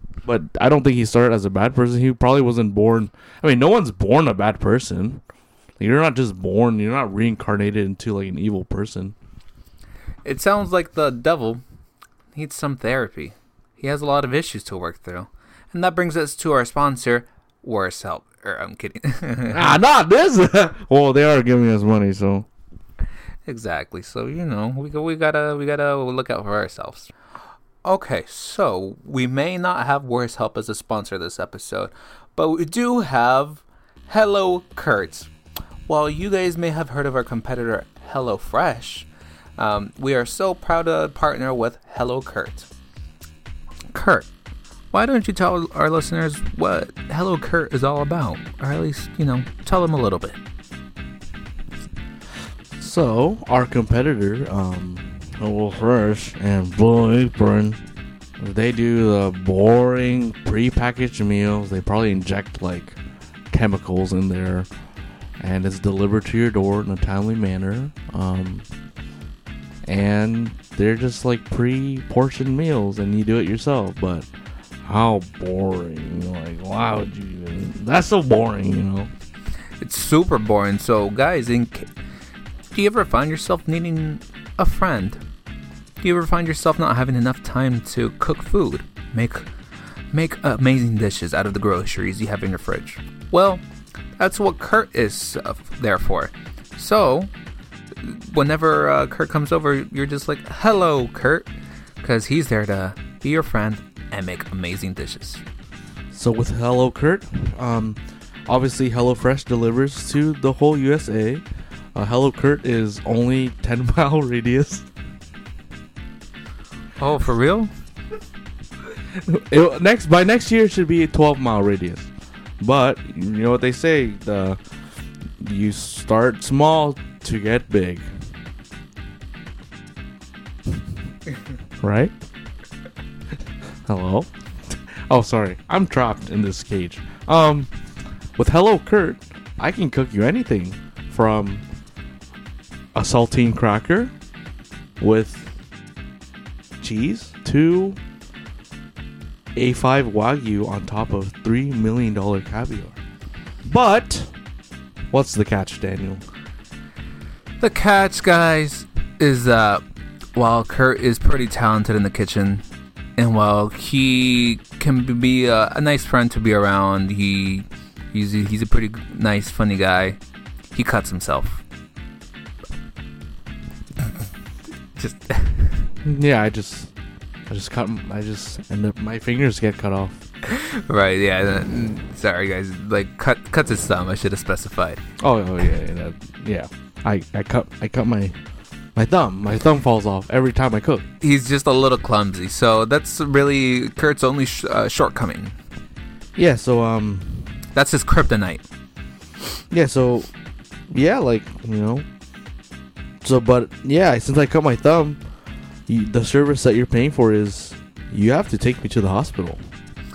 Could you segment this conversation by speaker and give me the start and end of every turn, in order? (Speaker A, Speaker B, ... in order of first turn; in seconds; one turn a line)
Speaker A: 0.2-5.2
Speaker A: 5.8-9.2
Speaker B: 10.2-11.6
Speaker B: 12.3-19.8
Speaker A: 19.5-22.5
Speaker B: 23.5-27.1
Speaker B: 27.8-35.3
Speaker B: 35.9-39.1
Speaker B: 39.6-42.7
Speaker B: 43.9-44.3
Speaker B: 44.9-50.4
Speaker A: 52.8-57.8
Speaker A: 58.4-63.0
Speaker A: 63.5-64.7
Speaker A: 65.4-68.7
Speaker A: 69.8-74.3
Speaker A: 74.8-79.1
Speaker B: 79.8-81.9
Speaker B: 82.7-85.2
Speaker B: 86.0-89.5
Speaker B: 90.1-93.6
Speaker B: 94.2-97.3
Speaker B: 98.0-101.5
Speaker B: 102.0-105.4
Speaker A: 106.1-111.4
Speaker A: 112.0-114.9
Speaker B: 117.0-117.7
Speaker A: 119.1-122.1
Speaker A: 122.6-124.6
Speaker A: 125.4-128.1
Speaker A: 131.8-132.1
Speaker A: 133.9-137.7
Speaker A: 138.4-141.6
Speaker A: 142.9-144.1
Speaker A: 145.0-145.5
Speaker A: 146.8-148.0
Speaker A: 149.6-153.0
Speaker A: 153.7-154.3
Speaker A: 155.1-156.2
Speaker B: 157.6-159.8
Speaker B: 160.3-162.6
Speaker B: 163.2-170.2
Speaker B: 170.7-171.6
Speaker B: 174.9-175.9
Speaker A: 176.0-176.9
Speaker A: 177.5-180.2
Speaker B: 180.4-185.0
Speaker A: 185.2-188.4
Speaker A: 189.0-191.1
Speaker B: 191.2-195.6
Speaker A: 196.4-197.6
Speaker B: 197.7-198.7
Speaker A: 199.7-200.3
Speaker A: 200.9-202.1
Speaker A: 203.2-205.2
Speaker A: 205.9-209.6